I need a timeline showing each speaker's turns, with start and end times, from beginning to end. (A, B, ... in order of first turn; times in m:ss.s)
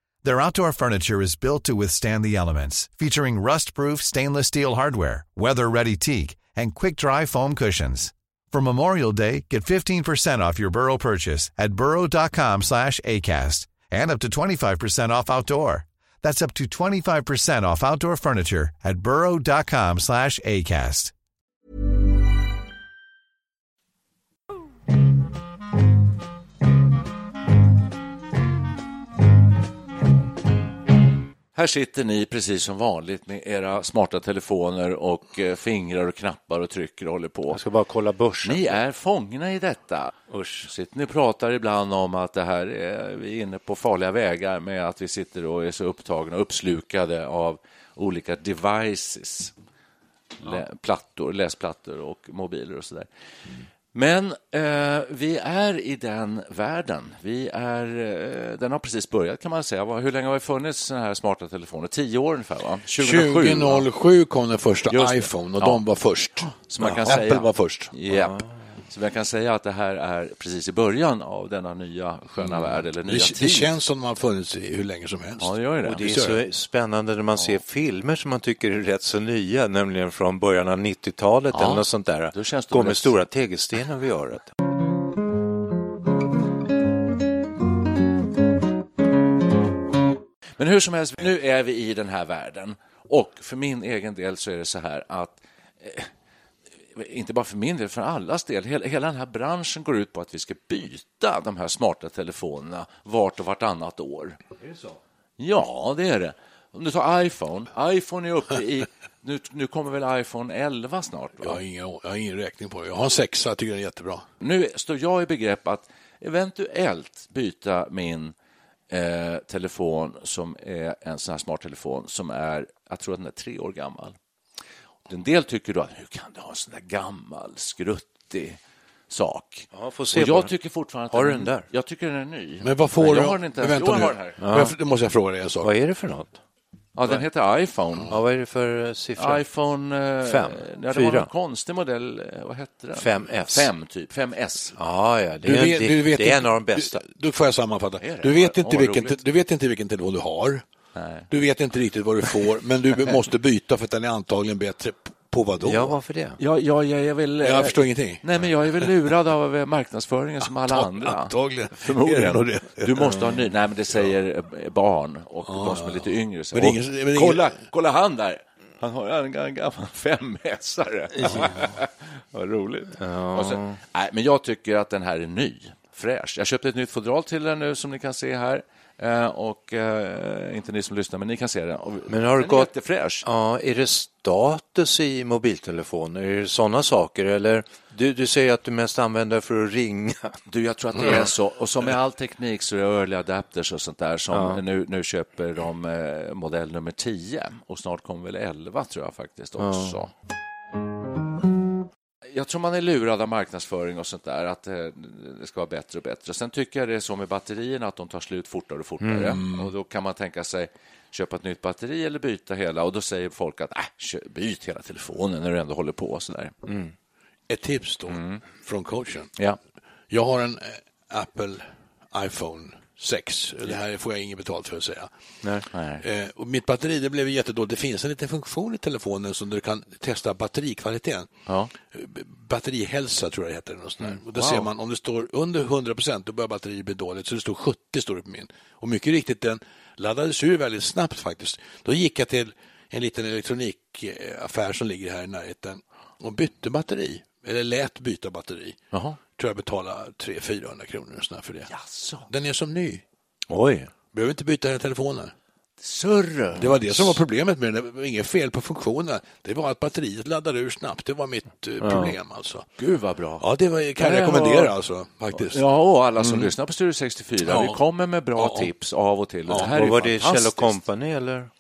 0:00.2-0:21.1 A
0:31.6-0:37.6 B
0:37.5-0:38.8 C
0:38.4-0:49.5 B
0:40.3-0:40.7 C
0:50.4-0:53.1 B
0:53.9-1:03.9 B
1:03.0-1:07.9 D
1:04.9-1:05.8 B
1:06.5-1:13.7 B
1:08.1-1:08.4 C
1:12.5-1:16.4 D
1:15.4-1:16.0 B
1:15.8-1:24.5 C
1:21.5-1:23.1 B
1:30.6-1:36.1 B
1:36.9-1:44.4 B
1:45.4-1:51.6 B
1:51.4-1:54.2 D
1:54.4-1:58.4 B
1:58.9-2:04.2 B
2:05.1-2:08.6 B
2:09.1-2:14.4 B
2:09.7-2:10.5 C
2:11.1-2:11.7 C
2:12.6-2:15.7 D
2:14.4-2:14.8 C
2:15.6-2:16.4 C
2:17.0-2:18.1 B
2:18.1-2:19.4 C
2:19.2-2:24.8 B
2:20.2-2:21.3 C
2:23.0-2:23.7 C
2:24.8-2:27.0 C
2:25.4-2:30.6 D
2:28.0-2:29.2 B
2:31.0-2:31.3 B
2:31.3-2:36.0 D
2:35.6-2:36.4 C
2:36.4-3:03.2 B
2:37.4-2:38.3 D
2:40.5-2:43.2 D
2:45.5-2:46.0 D
2:46.5-2:47.6 D
2:51.1-2:51.6 C
2:52.4-2:53.8 C
3:02.1-3:02.7 C
3:03.2-3:10.4 C
3:10.5-3:20.1 B
3:14.3-3:14.6 C
3:19.6-3:20.0 C
3:22.2-3:36.6 B
3:29.0-3:29.4 C
3:29.2-3:29.7 D
3:36.7-3:36.9 C
3:37.5-3:39.3 D
3:38.1-3:38.4 B
3:40.1-3:45.1 D
3:45.7-3:46.0 B
3:46.0-3:51.3 D
3:51.5-3:51.7 B
3:51.8-4:08.8 D
3:54.0-3:54.7 B
4:08.9-4:09.2 B
4:09.3-4:11.7 D
4:11.7-4:12.3 B
4:12.3-4:13.0 D
4:13.5-4:13.9 C
4:14.1-4:15.3 D
4:15.8-4:17.2 B
4:16.6-4:22.7 D
4:21.8-4:22.1 C
4:22.8-4:23.5 B
4:23.4-4:25.6 D
4:24.0-4:24.7 B
4:25.3-4:30.8 B
4:26.2-4:26.5 D
4:27.4-4:27.8 D
4:28.4-4:28.7 D
4:29.6-4:31.5 C